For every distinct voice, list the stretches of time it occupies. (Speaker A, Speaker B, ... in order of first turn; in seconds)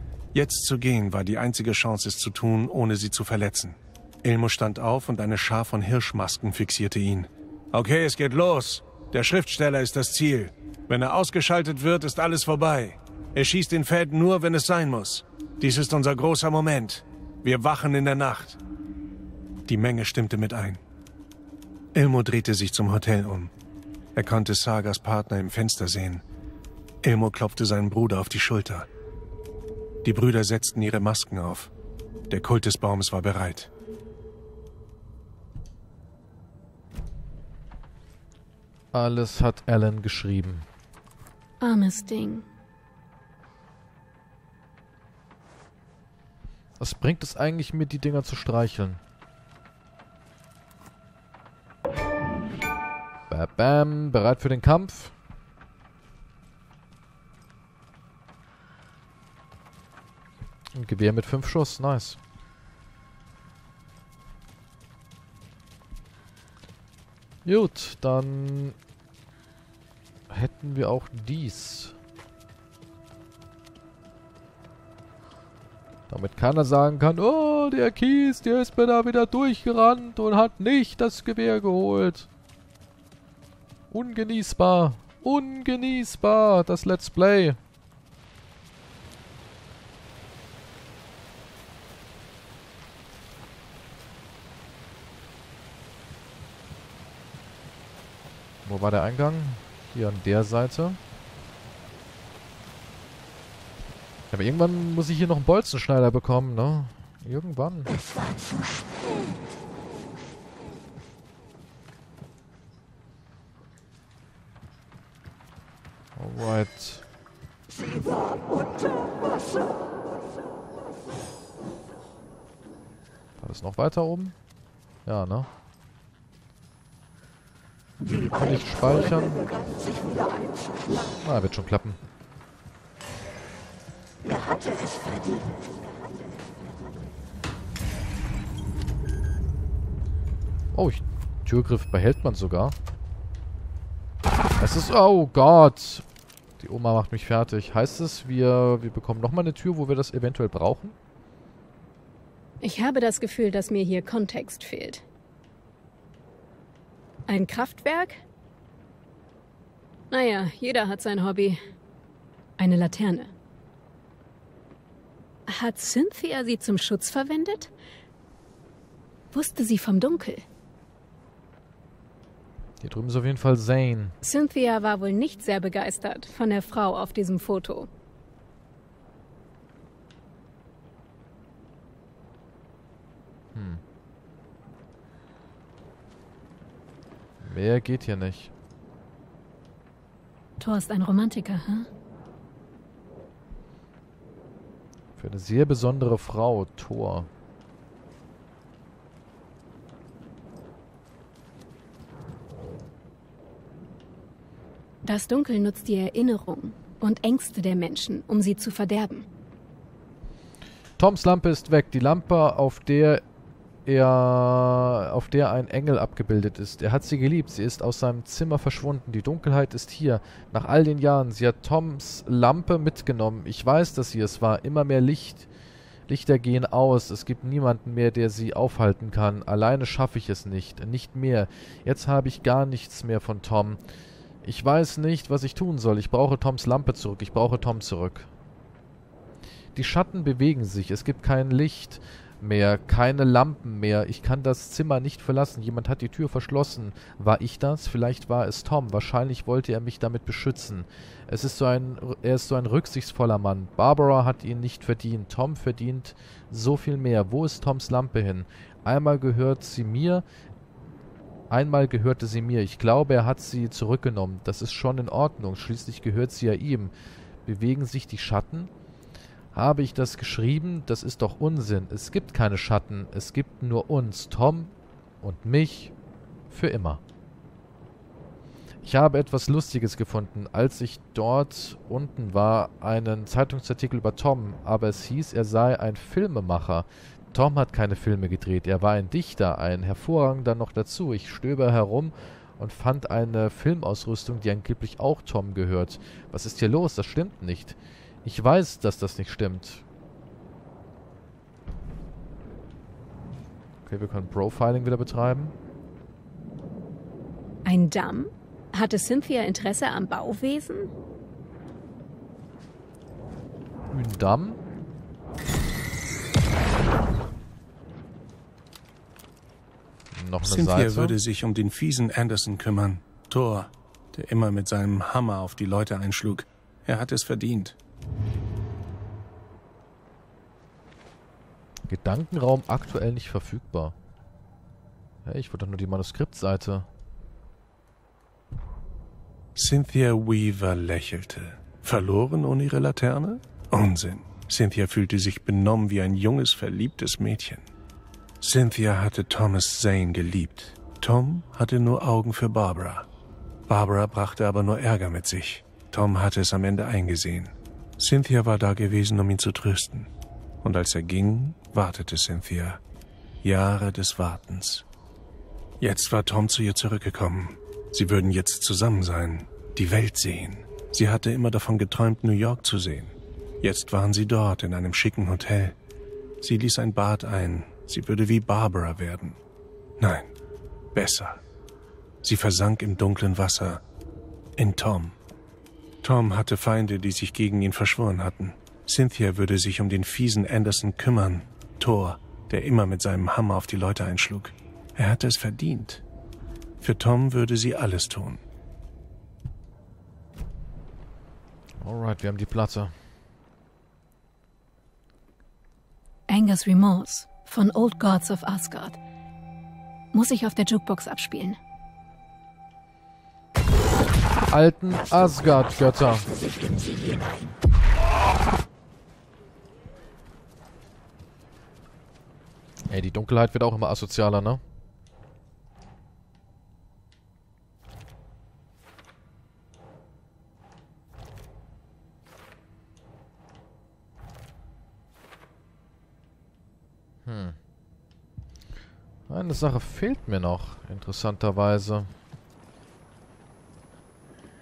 Speaker A: 0.3-18.6, 19.7-20.8, 21.9-23.5, 24.1-26.2, 27.0-28.9, 30.0-31.7, 32.3-33.7, 320.4-327.8, 339.5-347.7, 348.4-353.1, 353.7-360.1, 360.6-362.8, 363.4-364.8, 365.8-375.8, 376.4-379.4, 380.0-380.3, 380.9-381.4, 382.2-383.8, 384.6-385.1, 386.0-396.0, 396.8-398.4
Speaker B: 38.9-40.6, 46.8-49.0, 53.3-55.1, 60.7-62.2, 67.4-68.8, 70.3-71.9, 76.1-82.3, 83.9-87.6, 98.6-101.0, 104.3-107.9, 116.2-117.0, 123.4-124.3, 125.0-125.5, 128.3-129.4, 131.2-132.0, 140.7-142.8, 144.6-146.0, 146.6-150.9, 172.8-174.2, 183.5-183.8, 187.4-188.5, 195.2-197.3, 211.0-213.2, 213.8-225.5, 226.1-233.8, 234.4-238.3, 239.7-260.2, 261.5-266.9, 267.4-268.7, 269.5-275.9, 276.5-277.0, 278.8-299.8, 303.9-305.5, 313.9-314.6, 320.1-321.1, 331.9-333.9, 335.2-336.9, 401.8-402.9, 414.5-416.3, 422.9-424.6, 437.2-437.6, 439.3-442.1
Speaker C: 41.6-42.5, 152.6-155.0, 157.3-158.2, 160.1-161.6, 162.6-163.3, 165.5-167.7, 169.3-170.4, 174.2-177.9, 190.6-191.9, 205.0-209.3, 307.6-310.9, 406.3-409.0, 410.1-411.6
Speaker D: 107.9-109.0, 117.7-119.3, 128.0-128.9, 129.4-130.5, 134.2-135.7, 414.9-417.6